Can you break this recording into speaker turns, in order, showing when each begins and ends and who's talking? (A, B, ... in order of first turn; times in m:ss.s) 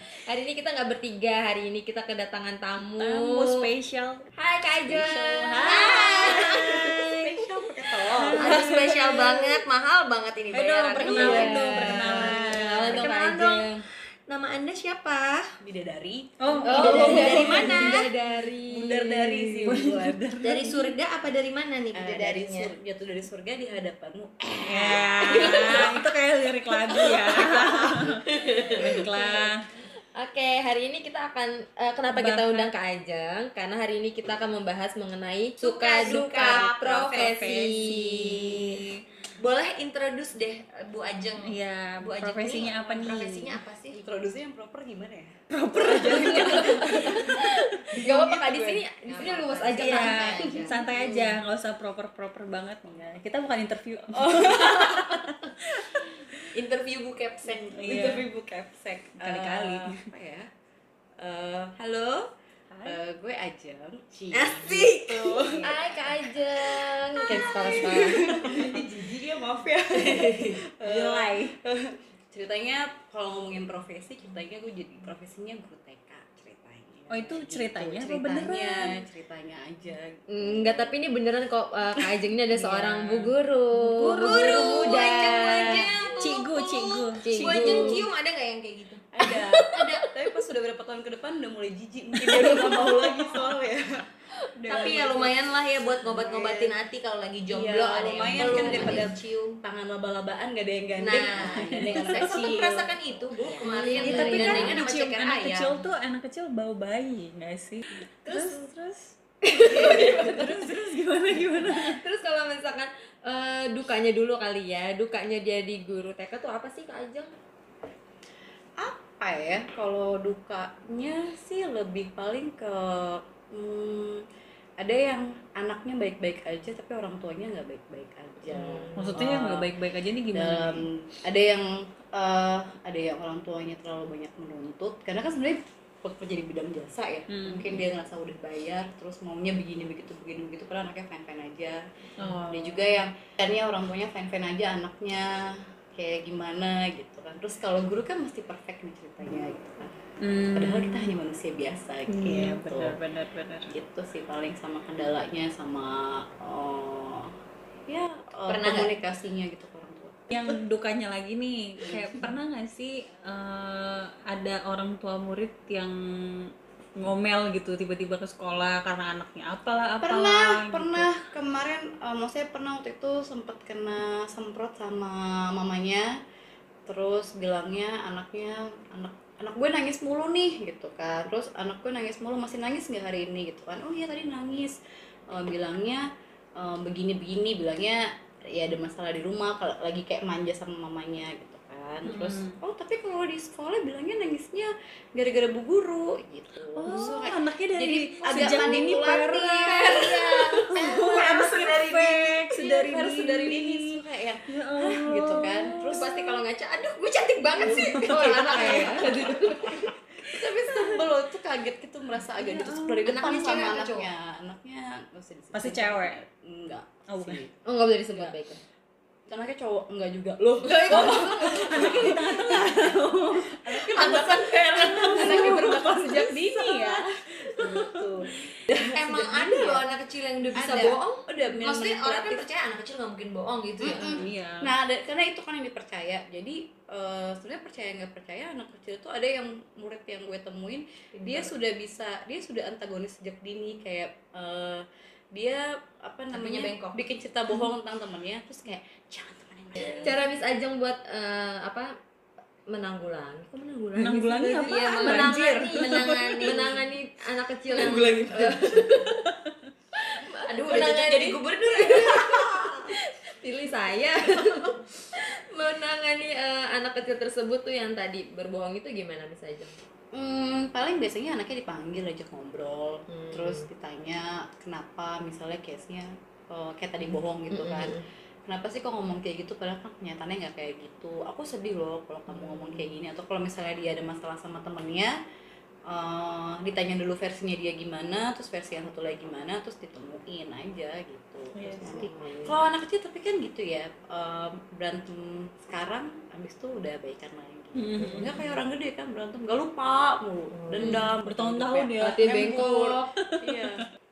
0:00.2-0:03.6 A
0:02.9-0:04.2 B
0:04.4-0:07.0 A
0:04.9-0:07.4 C
0:04.9-0:06.6 B
0:05.3-0:08.7 D
0:08.1-0:09.0 B
0:08.3-0:15.5 C
0:08.5-0:09.6 A
0:10.5-0:13.1 B
0:11.0-0:13.8 A
0:11.0-0:11.5 D
0:15.6-0:17.7 D
0:16.4-0:17.9 B
0:16.6-0:20.1 A
0:16.7-0:18.1 C
0:18.7-0:22.7 C
0:19.6-0:20.0 D
0:19.7-0:20.8 B
0:21.9-0:25.9 D
0:24.7-0:28.3 B
0:24.7-0:25.9 C
0:27.1-0:27.5 C
0:28.3-0:29.5 C
0:28.8-0:29.6 B
0:28.8-0:29.4 A
0:30.2-0:38.8 A
0:32.1-0:32.7 B
0:35.6-0:38.8 C
0:37.4-0:38.2 B
0:39.4-0:44.0 C
0:41.4-0:43.6 B
0:43.9-0:49.1 D
0:45.5-0:47.4 B
0:45.8-0:51.4 A
0:49.0-0:50.7 C
0:49.7-0:50.5 D
0:49.8-0:56.1 B
0:54.1-0:55.2 D
0:56.5-0:58.2 C
0:57.5-1:00.5 D
0:57.8-0:58.2 B
0:59.2-0:59.9 C
1:01.3-1:01.7 C
1:01.8-1:02.3 D
1:02.7-1:03.0 B
1:02.8-1:05.8 D
1:04.3-1:06.1 C
1:05.6-1:08.8 A
1:07.3-1:20.7 D
1:07.3-1:10.6 C
1:10.8-1:11.6 B
1:17.1-1:18.9 B
1:20.3-1:26.1 A
1:22.5-1:23.3 D
1:23.9-1:25.5 B
1:24.0-1:29.1 C
1:25.7-1:26.1 D
1:26.2-1:28.0 B
1:27.2-1:28.0 A
1:29.1-1:34.0 D
1:29.3-1:30.1 A
1:32.4-1:32.9 A
1:34.5-1:35.4 D
1:34.7-1:35.1 A
1:34.7-1:39.6 C
1:36.0-1:36.7 D
1:37.5-1:44.8 D
1:38.4-1:39.1 A
1:41.0-1:45.8 C
1:41.6-1:42.2 B
1:43.6-1:44.8 A
1:44.0-1:52.0 B
1:49.4-1:50.6 A
1:51.7-1:57.3 A
1:58.8-2:04.2 D
2:04.8-2:09.7 D
2:08.6-2:08.9 A
2:09.0-2:10.9 B
2:10.3-2:30.0 D
2:17.3-2:17.8 B
2:22.2-2:22.9 B
2:30.2-2:31.1 B
2:30.6-2:33.0 D
2:32.1-2:33.7 B
2:33.7-2:37.3 D
2:37.9-2:40.6 D
2:38.5-2:38.9 C
2:40.3-2:51.1 B
2:41.8-2:42.3 D
2:50.0-2:56.1 D
2:56.9-3:04.8 D
3:05.3-3:06.0 D
3:06.6-3:21.5 D
3:12.0-3:12.6 B
3:16.8-3:20.0 B
3:18.2-3:19.1 A
3:19.7-3:22.5 C
3:19.7-3:20.4 A
3:20.7-3:26.0 B
3:22.5-3:26.4 D
3:25.8-3:29.9 A
3:27.0-3:29.1 C
3:27.6-3:31.0 B
3:27.9-3:29.3 D
3:30.3-3:38.4 D
3:32.3-3:33.0 B
3:33.0-3:34.1 C
3:35.5-3:36.2 B
3:37.1-3:37.4 B
3:37.6-3:38.6 A
3:39.3-3:49.8 D
3:40.6-3:41.9 C
3:40.7-3:42.2 A
3:40.9-3:46.9 B
3:44.0-3:45.6 C
3:45.1-3:46.8 A
3:47.6-3:48.0 B
3:48.7-3:54.2 C
3:50.5-3:52.5 D
3:53.8-4:10.2 D
3:54.0-3:54.7 B
4:01.2-4:01.5 C
4:06.3-4:07.0 C
4:09.8-4:11.9 A
4:12.7-4:19.2 A
4:14.0-4:16.4 B
4:14.7-4:16.8 C
4:17.7-4:19.2 C
4:20.1-4:29.8 A
4:20.4-4:22.9 C
4:30.1-4:45.2 D
4:33.1-4:33.6 A
4:37.5-4:38.0 A
4:45.9-5:03.8 D
4:51.6-4:52.1 B
4:51.8-4:52.6 A
4:57.8-4:58.3 B
5:00.7-5:01.1 A
5:01.2-5:02.7 B
5:02.0-5:03.1 A
5:03.3-5:03.6 B